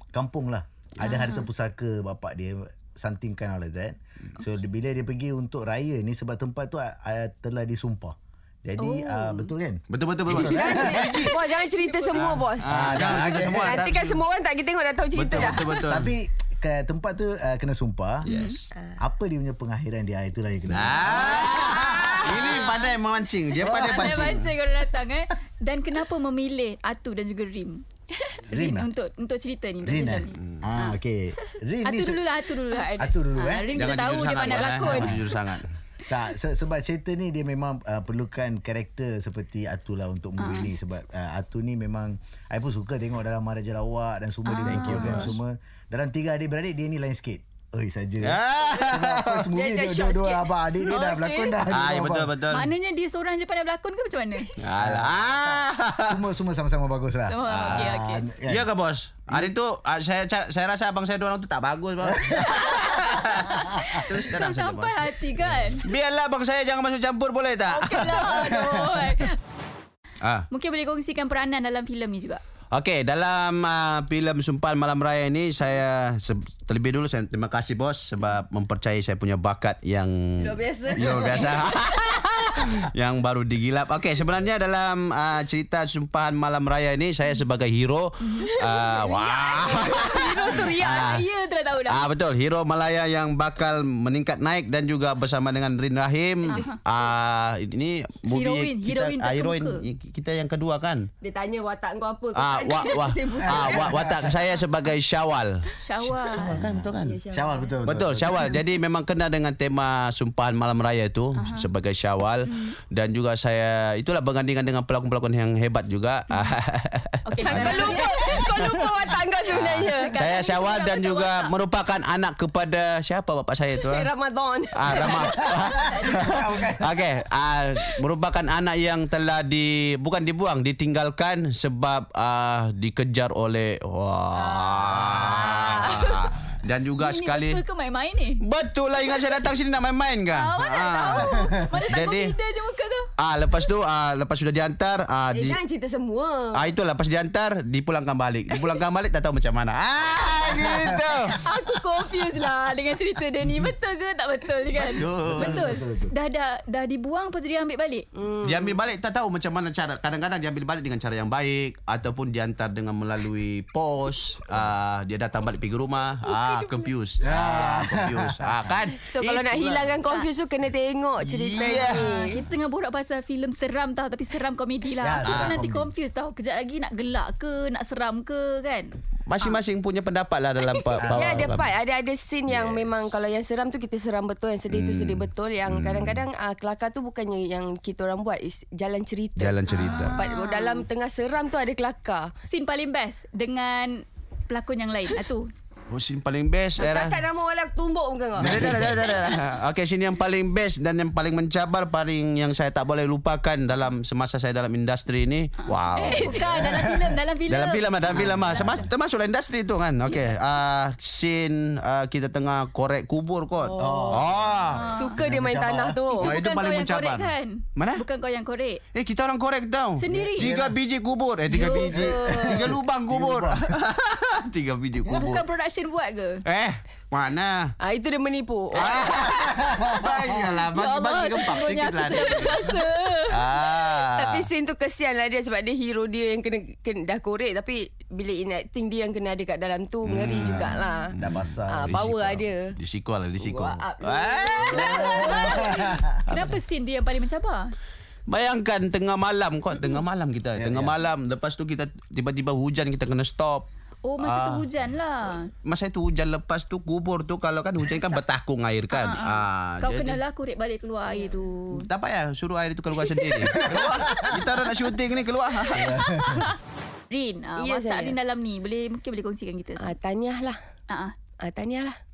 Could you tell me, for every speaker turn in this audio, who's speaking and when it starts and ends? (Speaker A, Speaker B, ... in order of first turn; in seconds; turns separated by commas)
Speaker A: 0.1-11.2, Speaker B: 1.0-1.5, Speaker B: 8.8-9.5, Speaker C: 9.9-11.4, Speaker D: 10.3-15.9, Speaker B: 11.8-12.4, Speaker C: 12.1-14.2, Speaker A: 12.6-13.8, Speaker C: 15.1-16.1, Speaker A: 15.3-18.3, Speaker C: 18.2-18.7, Speaker B: 18.3-18.6, Speaker A: 19.0-22.4, Speaker C: 20.7-24.5, Speaker D: 21.2-22.7, Speaker B: 22.0-22.9, Speaker A: 23.6-24.4, Speaker B: 23.6-31.0, Speaker A: 28.5-28.9, Speaker A: 29.8-32.2, Speaker B: 31.8-35.4, Speaker D: 32.7-33.1, Speaker A: 33.0-33.8, Speaker C: 33.7-35.7, Speaker A: 34.8-35.2, Speaker A: 36.1-52.5, Speaker B: 40.4-40.7, Speaker B: 44.5-45.3, Speaker C: 44.6-45.4, Speaker C: 48.2-49.5, Speaker D: 49.5-50.5, Speaker B: 50.9-51.6, Speaker C: 51.7-52.7, Speaker B: 52.5-54.5, Speaker C: 54.6-56.2, Speaker A: 54.8-58.7, Speaker B: 57.3-58.2, Speaker C: 57.5-65.1, Speaker A: 59.3-59.5, Speaker A: 62.0-63.9, Speaker B: 62.5-62.9, Speaker B: 63.6-65.9, Speaker A: 65.4-65.8, Speaker C: 65.8-68.5, Speaker B: 67.7-69.4, Speaker A: 68.3-69.2, Speaker C: 70.2-70.5, Speaker B: 70.5-72.4, Speaker C: 72.7-91.2, Speaker D: 80.4-81.9, Speaker B: 88.2-88.5, Speaker D: 88.4-91.0, Speaker B: 89.1-92.1, Speaker C: 91.9-101.1, Speaker B: 96.5-96.8, Speaker B: 98.3-99.8, Speaker D: 101.2-104.1, Speaker C: 102.3-107.2, Speaker A: 103.5-104.3, Speaker B: 105.8-106.6, Speaker A: 106.4-108.6, Speaker D: 107.0-107.7, Speaker C: 107.8-118.8, Speaker B: 111.4-111.7, Speaker B: 112.5-112.8, Speaker B: 117.2-118.3, Speaker D: 117.5-120.1, Speaker C: 119.5-124.1, Speaker B: 119.9-121.5, Speaker D: 123.8-126.3, Speaker C: 124.7-137.6, Speaker A: 125.5-127.0, Speaker D: 134.3-136.3, Speaker B: 137.0-138.4, Speaker C: 138.4-142.3, Speaker B: 140.3-143.1, Speaker A: 141.2-141.8, Speaker C: 143.2-145.6, Speaker D: 145.3-146.7, Speaker C: 146.5-151.4, Speaker A: 150.4-151.0, Speaker B: 151.4-158.1, Speaker C: 154.9-155.8, Speaker A: 154.9-156.1, Speaker D: 158.2-158.8, Speaker C: 158.4-170.0, Speaker B: 166.2-166.9, Speaker A: 167.2-168.5, Speaker D: 168.9-172.4, Speaker B: 170.1-170.3, Speaker C: 171.2-172.1, Speaker B: 171.7-178.9, Speaker A: 175.0-175.9, Speaker C: 175.2-175.6, Speaker C: 179.3-181.7, Speaker D: 180.8-192.3, Speaker A: 181.0-181.5, Speaker A: 182.5-183.1, Speaker C: 184.7-186.3, Speaker C: 189.4-190.2, Speaker B: 189.7-190.8, Speaker B: 192.5-195.5, Speaker C: 195.9-197.2, Speaker D: 196.8-199.2, Speaker A: 198.4-198.9, Speaker C: 198.4-206.5, Speaker B: 205.7-208.8, Speaker D: 206.1-206.9, Speaker C: 207.5-214.9, Speaker A: 208.1-208.9, Speaker D: 213.6-214.2, Speaker A: 213.8-216.0, Speaker B: 214.7-215.2, Speaker D: 214.9-216.4, Speaker B: 216.1-218.8, Speaker C: 216.2-218.0, Speaker C: 218.9-225.5, Speaker B: 220.0-220.5, Speaker A: 220.1-220.8, Speaker B: 221.5-222.6, Speaker A: 221.9-223.8, Speaker A: 225.0-225.3, Speaker B: 225.1-226.4, Speaker C: 226.4-227.7, Speaker D: 227.8-229.1, Speaker C: 228.7-232.6, Speaker A: 229.2-230.5, Speaker B: 230.7-233.4, Speaker C: 233.3-234.5, Speaker D: 234.1-241.1, Speaker C: 240.1-245.6, Speaker B: 240.7-241.1, Speaker A: 241.2-242.1, Speaker D: 241.7-242.8, Speaker D: 243.4-246.0, Speaker A: 244.8-246.2, Speaker B: 244.9-247.7, Speaker C: 246.3-246.6, Speaker C: 248.3-253.7, Speaker A: 250.6-251.0, Speaker B: 254.1-255.5, Speaker C: 254.2-254.7, Speaker C: 255.6-260.2, Speaker B: 258.9-261.9, Speaker C: 261.7-266.1, Speaker A: 263.4-264.4, Speaker A: 265.7-266.5, Speaker B: 266.1-266.5, Speaker B: 267.1-269.9, Speaker D: 267.6-268.2, Speaker D: 269.8-270.6, Speaker B: 270.9-271.1, Speaker D: 271.4-272.0